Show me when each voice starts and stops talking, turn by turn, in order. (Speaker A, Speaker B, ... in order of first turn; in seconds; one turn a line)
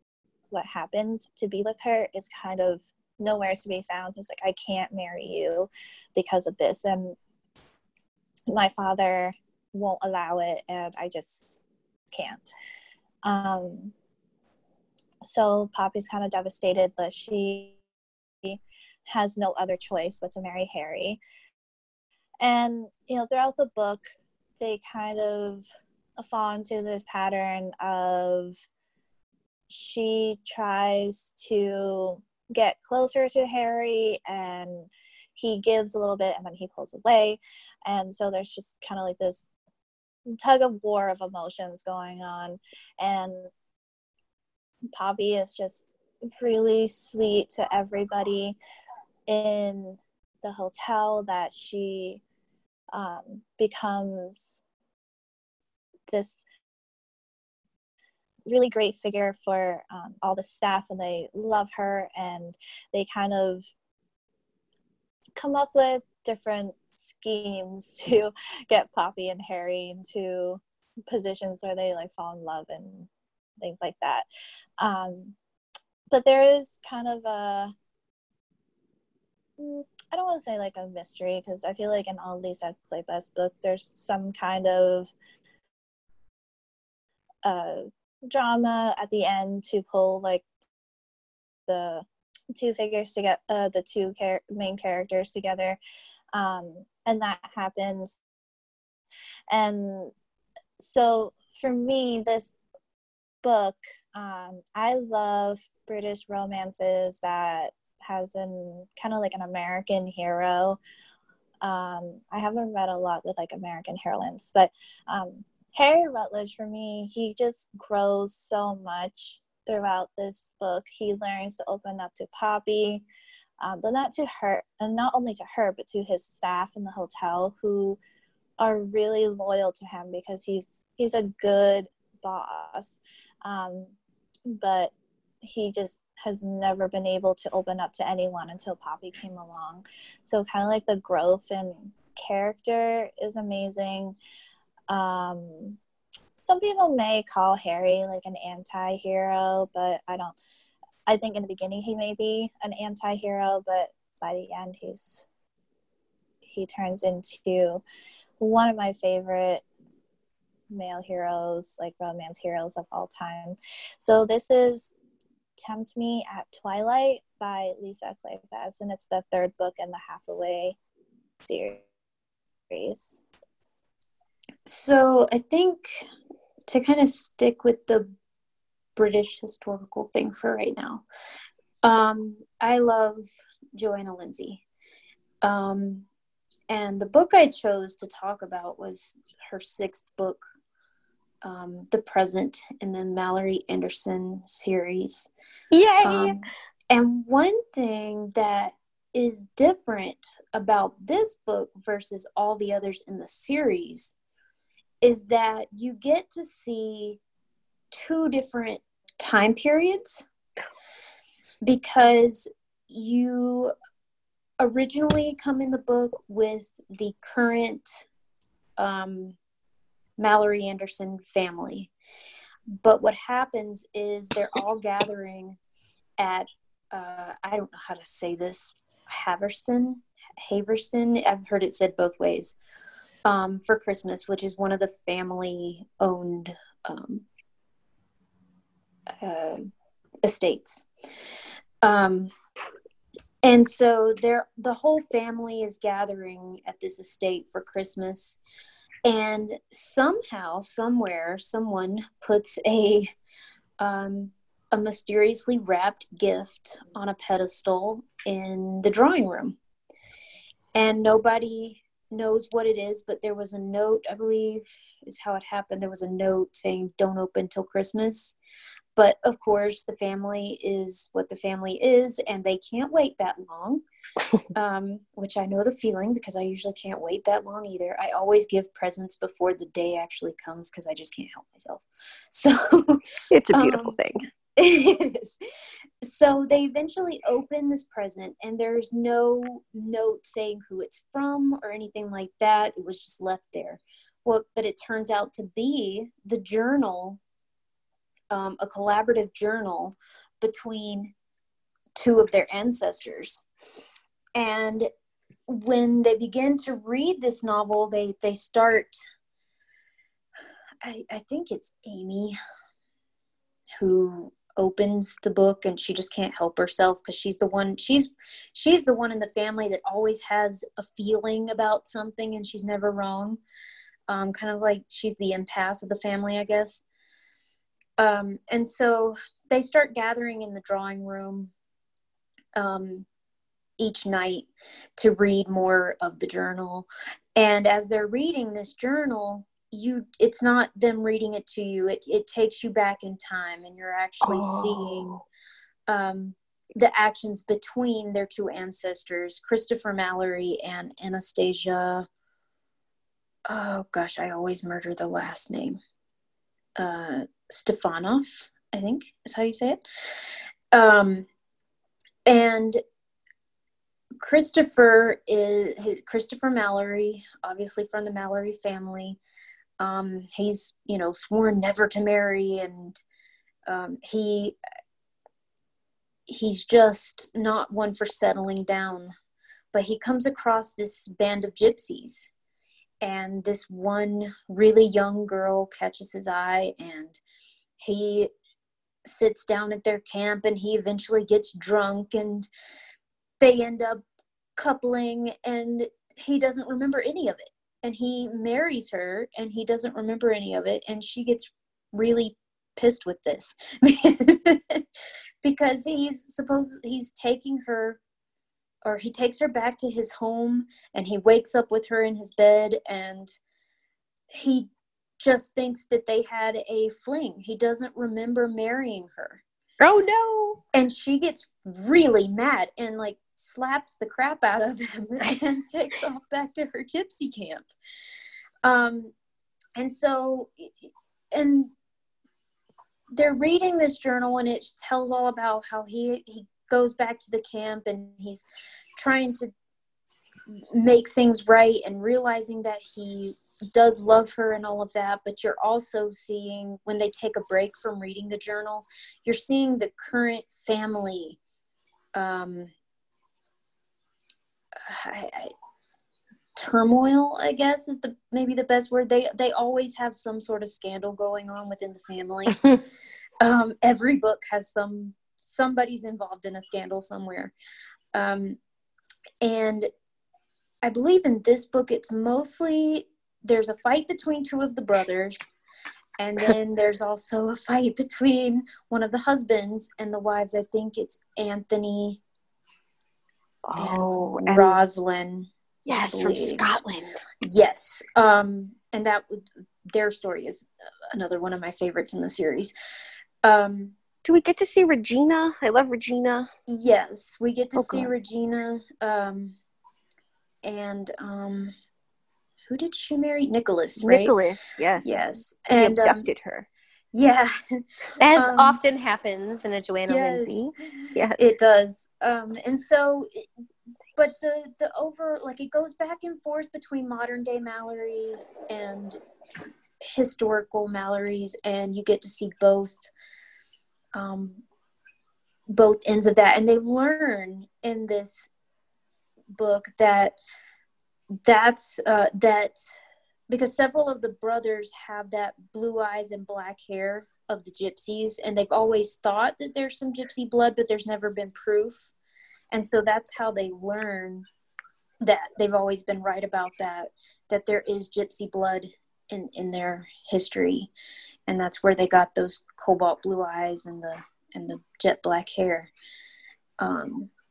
Speaker A: 0.5-7.2
Speaker A: 8.5-11.5
Speaker A: 12.1-12.5
Speaker A: 13.2-13.9
Speaker A: 15.2-17.8
Speaker A: 18.4-21.2
Speaker A: 22.4-24.0
Speaker A: 24.6-25.7
Speaker A: 26.2-28.6
Speaker A: 29.7-39.5
Speaker A: 40.3-43.5
Speaker A: 45.0-45.9
Speaker A: 46.4-48.6
Speaker A: 49.3-52.2
Speaker A: 52.9-54.5
Speaker A: 56.1-56.5
Speaker A: 58.5-63.7
Speaker A: 65.4-74.3
Speaker A: 74.8-75.4
Speaker A: 76.1-77.7
Speaker A: 79.6-85.1
Speaker A: 87.5-90.4
Speaker A: 91.7-95.8
Speaker A: 96.3-98.2
Speaker A: 99.5-100.1
Speaker A: 100.8-102.5
Speaker A: 103.4-110.8
Speaker A: 111.6-123.0
Speaker A: 123.6-128.0
Speaker A: 128.6-133.9
Speaker A: 134.5-134.9
Speaker A: 135.4-144.2
Speaker A: 144.9-145.8
Speaker A: 146.4-150.4
Speaker A: 151.1-155.2
Speaker A: 156.4-157.8
Speaker A: 158.4-159.6
Speaker A: 160.7-164.9
Speaker A: 165.6-170.8
Speaker A: 171.4-171.8
Speaker A: 172.7-173.2
Speaker B: 174.7-176.1
Speaker B: 176.7-178.1
Speaker B: 179.0-181.0
Speaker B: 181.8-183.2
Speaker B: 183.8-184.6
Speaker B: 185.4-186.1
Speaker B: 186.7-190.5
Speaker B: 191.4-195.3
Speaker C: 195.7-196.4
Speaker B: 196.0-204.2
Speaker B: 205.0-207.2
Speaker B: 207.9-210.2
Speaker B: 211.6-213.7
Speaker B: 214.6-218.1
Speaker B: 218.8-219.4
Speaker B: 220.2-221.9
Speaker B: 222.7-225.6
Speaker B: 226.2-232.6
Speaker B: 233.2-237.3
Speaker B: 239.2-240.9
Speaker B: 241.8-242.3
Speaker B: 243.4-248.4
Speaker B: 249.1-253.1
Speaker B: 253.8-259.6
Speaker B: 260.8-268.4
Speaker B: 269.0-273.8
Speaker B: 274.6-284.0
Speaker D: 283.3-284.2
Speaker B: 284.6-285.4
Speaker B: 286.0-297.2
Speaker B: 298.3-301.1
Speaker B: 301.9-303.4
Speaker B: 304.4-304.9
Speaker B: 305.5-309.0
Speaker B: 310.8-312.4
Speaker B: 313.8-323.4
Speaker B: 324.1-326.8
Speaker B: 328.0-331.5
Speaker B: 332.6-333.1
Speaker B: 333.8-345.2
Speaker D: 344.2-344.9
Speaker B: 345.9-352.1
Speaker B: 353.5-355.8
Speaker B: 356.8-359.8
Speaker B: 360.7-361.3
Speaker B: 362.3-362.8
Speaker B: 364.2-369.2
Speaker B: 369.8-373.0
Speaker B: 373.7-374.6
Speaker B: 376.3-379.1
Speaker B: 379.7-382.3
Speaker B: 383.0-387.2
Speaker B: 387.8-388.3
Speaker B: 389.1-392.5
Speaker B: 393.4-394.0
Speaker B: 394.6-404.9
Speaker B: 405.4-408.0
Speaker B: 408.8-413.4
Speaker B: 414.3-419.4
Speaker D: 419.8-420.6
Speaker B: 420.7-427.7
Speaker B: 428.6-429.1
Speaker B: 429.8-431.7
Speaker B: 433.1-438.5
Speaker B: 439.0-439.5
Speaker B: 440.5-451.4
Speaker B: 452.1-452.7
Speaker B: 454.8-455.5
Speaker B: 456.6-462.6
Speaker B: 463.4-467.5
Speaker B: 468.1-468.6
Speaker B: 469.4-469.9
Speaker B: 470.8-475.5
Speaker B: 476.2-482.2
Speaker D: 483.7-484.8
Speaker B: 483.8-486.7
Speaker D: 485.9-487.2
Speaker B: 487.4-492.7
Speaker B: 493.4-494.0
Speaker D: 494.2-496.5
Speaker B: 496.7-499.6
Speaker D: 497.8-498.1
Speaker B: 500.6-501.8
Speaker B: 502.7-504.4
Speaker D: 504.0-506.7
Speaker B: 505.0-506.4
Speaker B: 507.1-507.8
Speaker C: 508.2-510.7
Speaker B: 508.3-508.8
Speaker B: 510.1-513.5
Speaker D: 511.1-511.6
Speaker B: 514.2-519.2
Speaker B: 520.0-523.1
Speaker B: 524.1-524.6
Speaker B: 525.7-528.5
Speaker B: 529.5-530.4
Speaker B: 531.4-532.8
Speaker B: 533.5-542.1
Speaker B: 542.7-544.5
Speaker B: 545.2-550.9
Speaker B: 551.5-555.9
Speaker B: 556.8-557.3